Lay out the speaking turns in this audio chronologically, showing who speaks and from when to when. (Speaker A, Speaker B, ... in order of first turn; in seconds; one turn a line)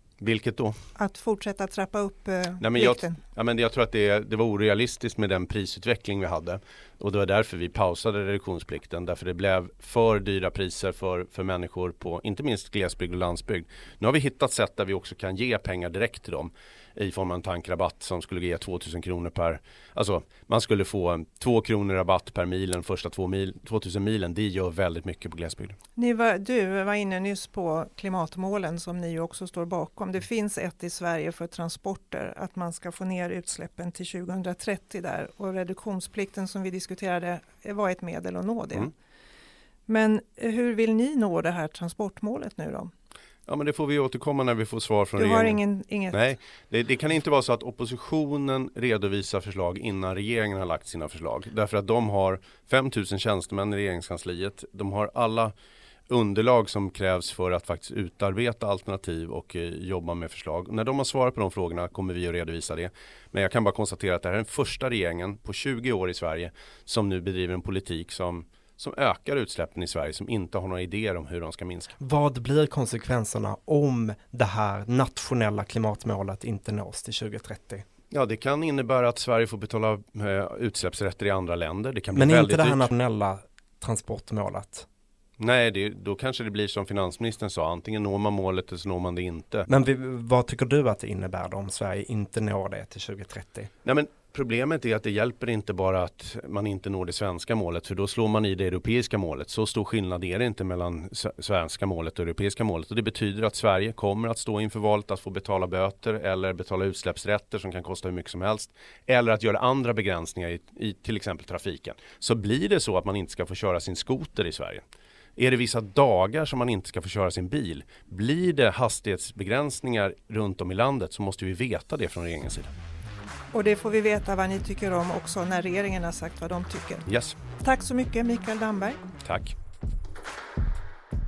Speaker A: 0.2-0.8
Speaker B: 0.9-3.2
Speaker A: 2.6-25.8
Speaker B: 26.0-38.9
Speaker B: 39.9-42.9
Speaker A: 43.5-45.6
Speaker B: 45.2-46.2
Speaker A: 46.1-55.5
Speaker A: 56.1-71.9
Speaker C: 72.0-77.8
Speaker A: 78.1-82.9
Speaker C: 82.1-84.9
Speaker A: 85.4-89.7
Speaker C: 89.7-93.7
Speaker A: 93.8-114.8
Speaker A: 115.4-122.7
Speaker B: 123.5-127.0
Speaker A: 127.1-127.3
Speaker B: 127.6-129.0
Speaker A: 129.2-129.5